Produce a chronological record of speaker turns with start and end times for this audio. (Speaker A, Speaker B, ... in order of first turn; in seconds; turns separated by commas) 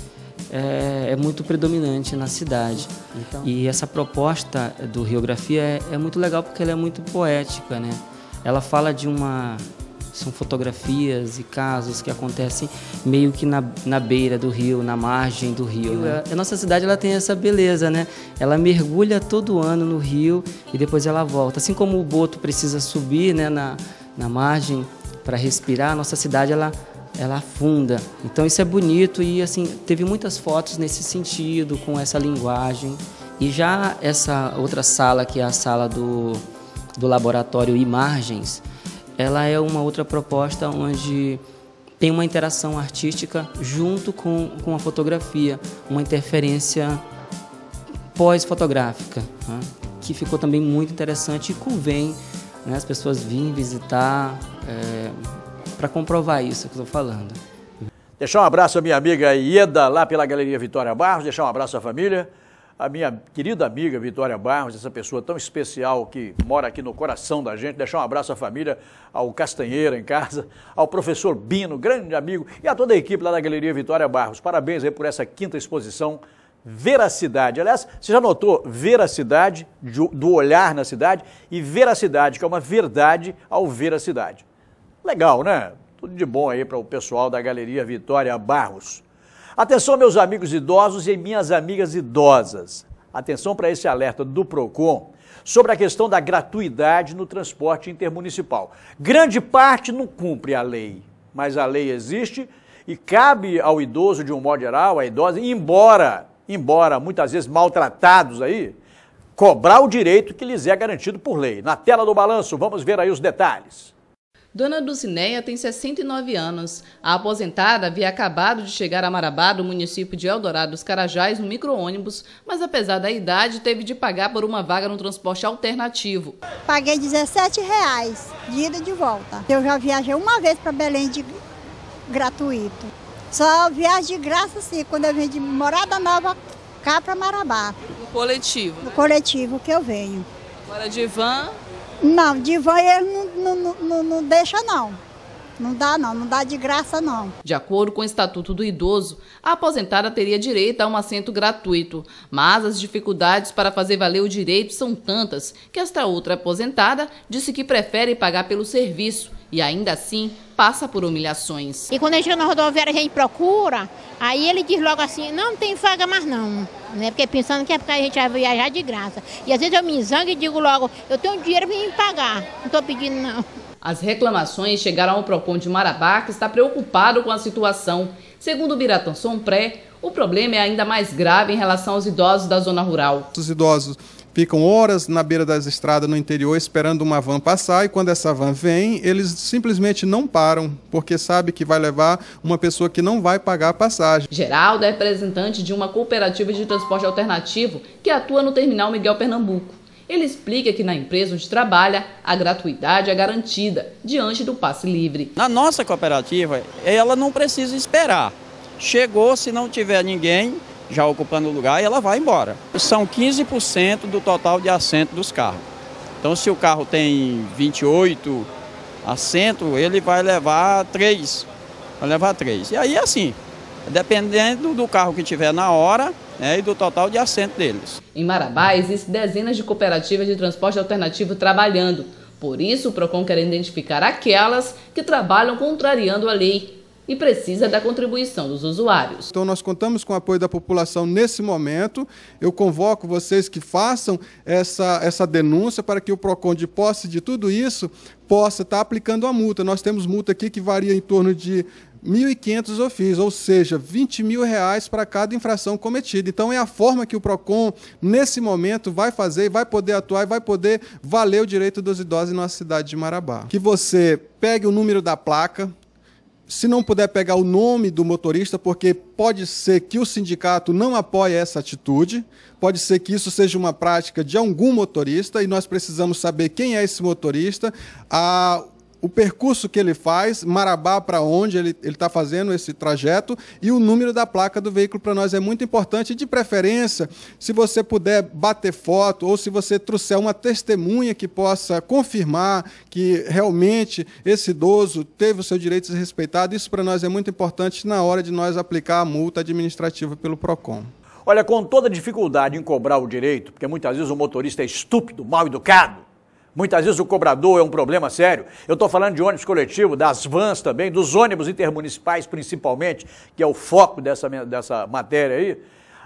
Speaker A: 0.5-36.5, Speaker A: 37.0-38.6, Speaker A: 39.2-41.4, Speaker A: 42.0-47.0, Speaker A: 48.1-57.4, Speaker B: 58.2-84.4, Speaker B: 85.0-89.0, Speaker B: 89.6-108.8, Speaker B: 109.4-113.9, Speaker C: 114.5-126.4, Speaker D: 126.7-131.4, Speaker D: 132.1-137.8, Speaker E: 137.9-138.9, Speaker D: 138.8-140.3, Speaker E: 140.7-141.6, Speaker D: 142.0-145.0, Speaker D: 145.6-147.3, Speaker C: 147.4-161.9, Speaker F: 161.9-173.4, Speaker C: 173.8-183.3, Speaker G: 183.3-194.3, Speaker C: 194.3-205.3, Speaker H: 205.4-215.7, Speaker H: 216.2-218.5, Speaker H: 219.0-221.5, Speaker H: 222.0-228.0, Speaker C: 228.2-239.3, Speaker G: 239.3-265.7, Speaker G: 266.5-300.9, Speaker B: 301.3-306.0, Speaker B: 306.6-315.6